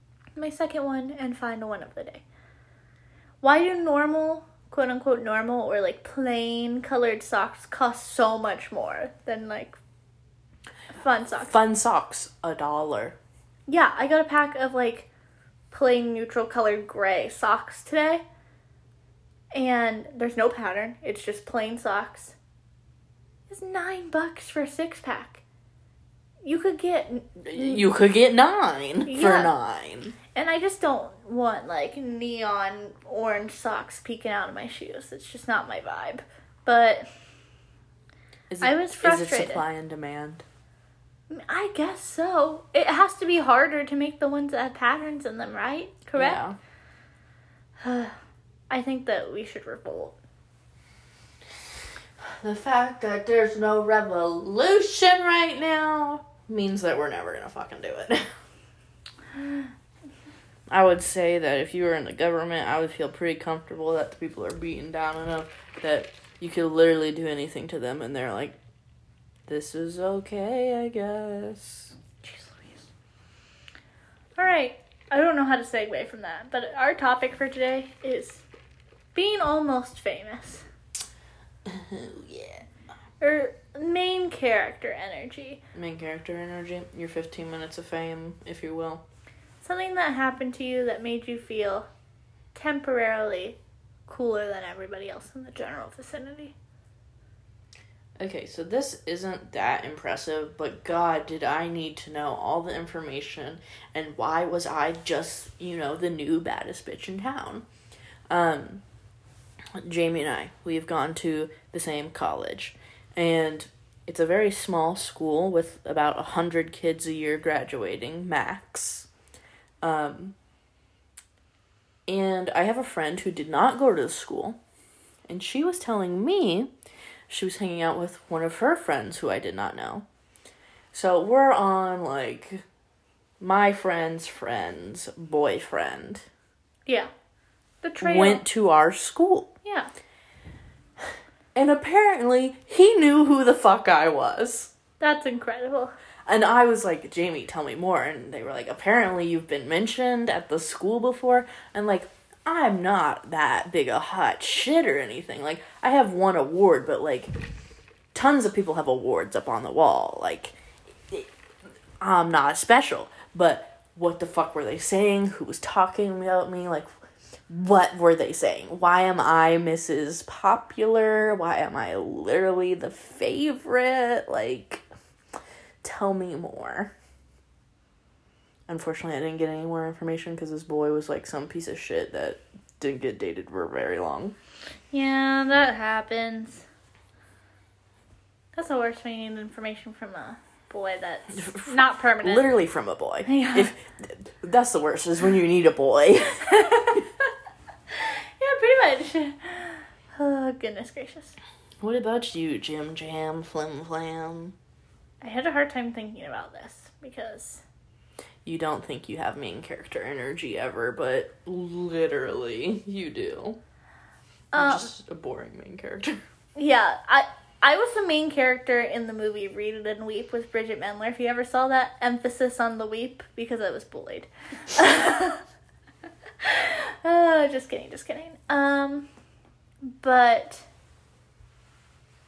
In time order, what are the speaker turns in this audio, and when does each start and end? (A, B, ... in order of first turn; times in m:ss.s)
0:00.4-0:02.2 A
0:03.4-0:09.8 A
0:10.9-0:11.5 A
0:11.4-0:13.2 B
0:13.7-0:15.1 A
0:15.7-0:18.2 A
0:19.5-0:22.4 A
0:23.5-0:25.4 A
0:26.4-0:27.8 A
0:27.4-0:30.2 B
0:29.1-0:29.5 A
0:30.3-0:37.1 A
0:38.5-0:40.4 B
0:38.6-0:39.6 A
0:41.3-0:46.4 A
0:46.2-0:46.6 B
0:47.8-0:48.2 A
0:48.7-0:50.2 A
0:52.2-0:58.3 B
1:00.7-1:08.6 B
1:09.5-1:12.0 B
1:12.2-1:12.9 A
1:14.4-1:18.4 A
1:19.2-1:20.6 A
1:21.6-1:22.7 B
1:23.2-1:25.6 A
1:25.7-1:29.0 B
1:29.6-1:31.9 A
1:32.5-1:36.6 A
1:38.2-1:47.7 B
1:48.3-1:48.8 B
1:49.8-1:59.1 B
1:59.8-2:00.4 B
2:02.1-2:04.6 B
2:05.3-2:06.7 B
2:07.3-2:10.1 B
2:10.9-2:12.6 B
2:13.4-2:16.3 B
2:17.8-2:18.4 A
2:18.0-2:19.5 B
2:19.6-2:19.9 A
2:21.6-2:24.7 B
2:25.0-2:26.0 A
2:26.3-2:37.3 B
2:38.1-2:41.3 B
2:42.0-2:46.9 B
2:47.5-2:54.8 B
2:55.8-2:56.9 B
2:58.7-3:04.4 B
3:04.9-3:06.6 A
3:08.6-3:12.5 A
3:11.4-3:17.0 B
3:13.2-3:13.7 A
3:16.5-3:17.0 A
3:17.9-3:21.4 A
3:21.8-3:24.6 B
3:25.2-3:27.6 A
3:28.4-3:33.6 B
3:34.5-3:34.9 A
3:34.6-3:36.2 B
3:36.6-3:45.4 A
3:46.4-3:49.1 A
3:49.8-3:50.7 A